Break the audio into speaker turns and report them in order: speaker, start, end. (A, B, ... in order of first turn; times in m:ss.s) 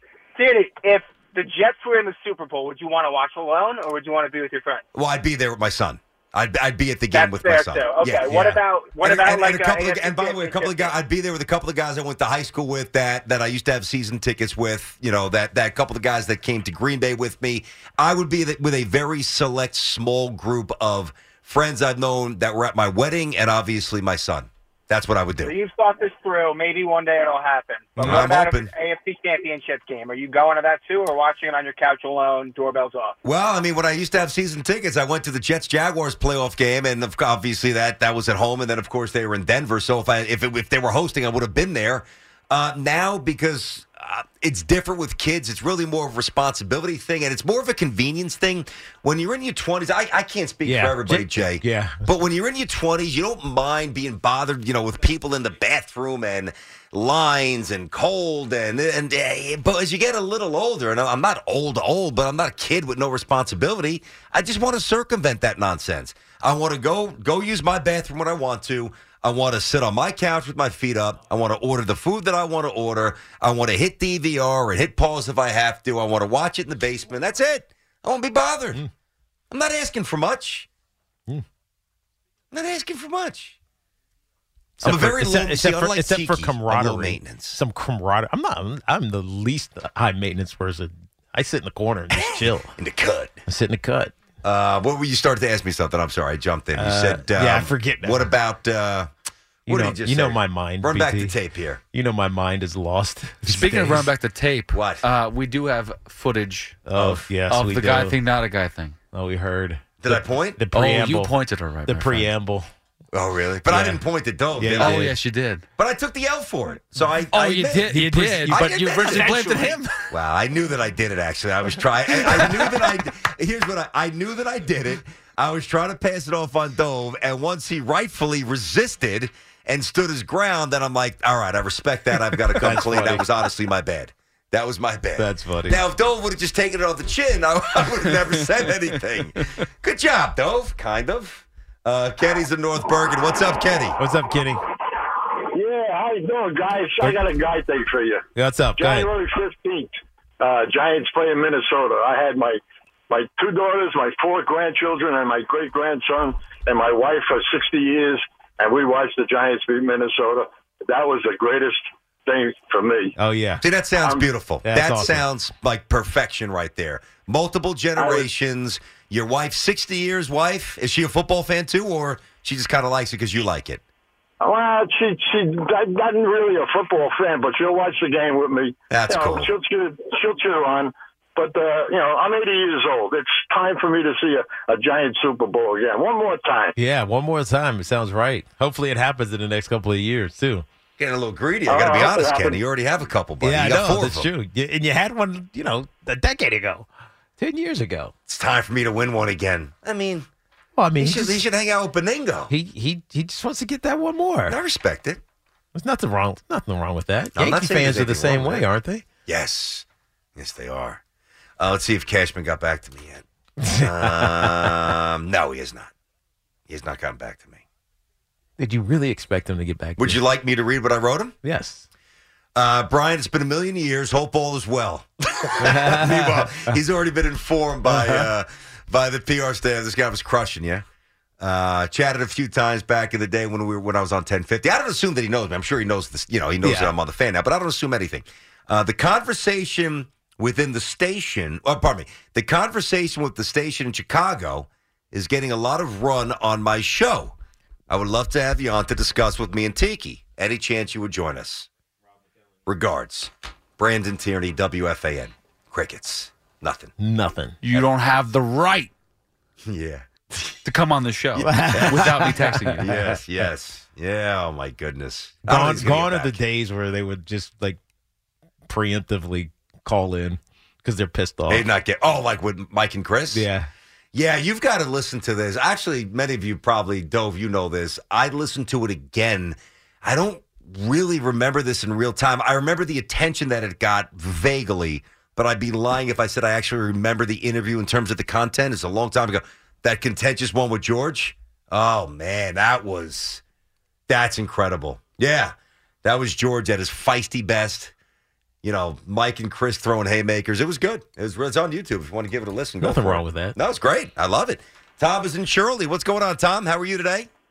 0:00.4-0:04.8 A
0:05.0-0:25.6 B
0:07.1-0:10.9 A
0:08.3-0:08.6 C
0:25.4-0:33.2 A
0:28.0-0:28.3 C
0:28.0-0:28.7 B
0:33.2-1:18.8 B
0:50.6-0:52.1 C
1:19.5-1:20.7 B
1:22.5-1:23.6 B
1:24.8-1:32.7 C
1:24.8-1:27.6 B
1:32.1-1:33.4 B
1:33.5-1:34.1 C
1:34.4-1:39.1 B
1:36.8-1:38.3 C
1:39.7-1:41.4 C
1:39.7-1:41.8 B
1:41.9-1:44.1 C
1:43.4-1:49.0 D
1:44.7-1:45.0 B
1:46.9-1:48.2 C
1:49.1-1:51.3 C
1:50.0-1:50.6 B
1:50.7-1:52.3 D
1:51.9-1:52.7 C
1:53.1-1:55.1 B
1:53.7-1:54.0 C
1:54.6-1:55.2 C
1:54.8-1:55.6 D
1:55.8-1:59.5 B
1:57.3-1:59.9 D
1:57.9-1:59.8 C
2:00.1-2:24.0 B
2:02.1-2:02.8 C
2:12.6-2:13.3 C
2:15.2-2:15.8 C
2:24.0-2:24.6 C
2:25.5-2:28.2 E
2:28.4-2:29.1 C
2:28.8-2:43.1 E
2:43.2-2:43.6 C
2:43.6-2:53.8 B
2:44.0-2:44.2 E
2:44.6-2:45.3 C
2:48.0-2:48.3 E
2:54.4-3:06.8 E
2:58.9-2:59.5 B
3:06.8-3:10.6 C
3:11.0-3:14.3 B
3:11.7-3:12.6 E
3:13.4-3:18.1 C
3:18.3-3:20.3 B
3:20.8-3:21.4 C
3:21.0-3:22.5 B
3:22.5-3:24.6 C
3:24.5-3:25.2 B
3:25.7-3:29.0 C
3:27.4-3:28.7 B
3:29.3-3:29.8 B
3:30.4-3:31.0 B
3:31.6-3:33.2 B
3:33.6-3:34.9 C
3:33.8-3:35.9 B
3:36.7-3:37.6 B
3:38.6-3:40.2 C
3:40.0-3:41.3 B
3:41.4-3:41.9 C
3:42.6-3:50.8 B
3:45.6-3:46.8 C
3:47.8-3:48.3 C
3:51.4-4:07.4 B
3:56.6-3:56.9 C
4:07.9-4:11.7 B
4:12.7-4:16.9 B
4:17.0-4:17.6 C
4:17.6-4:18.9 D
4:19.7-4:20.6 B
4:20.6-4:22.9 D
4:21.4-4:23.2 C
4:21.6-4:26.4 B
4:25.5-4:27.8 C
4:28.7-4:31.7 C
4:31.5-4:33.5 B
4:33.3-4:33.7 C
4:34.1-4:53.4 B
4:54.1-4:57.9 B
4:58.6-5:07.3 B
5:02.8-5:03.6 C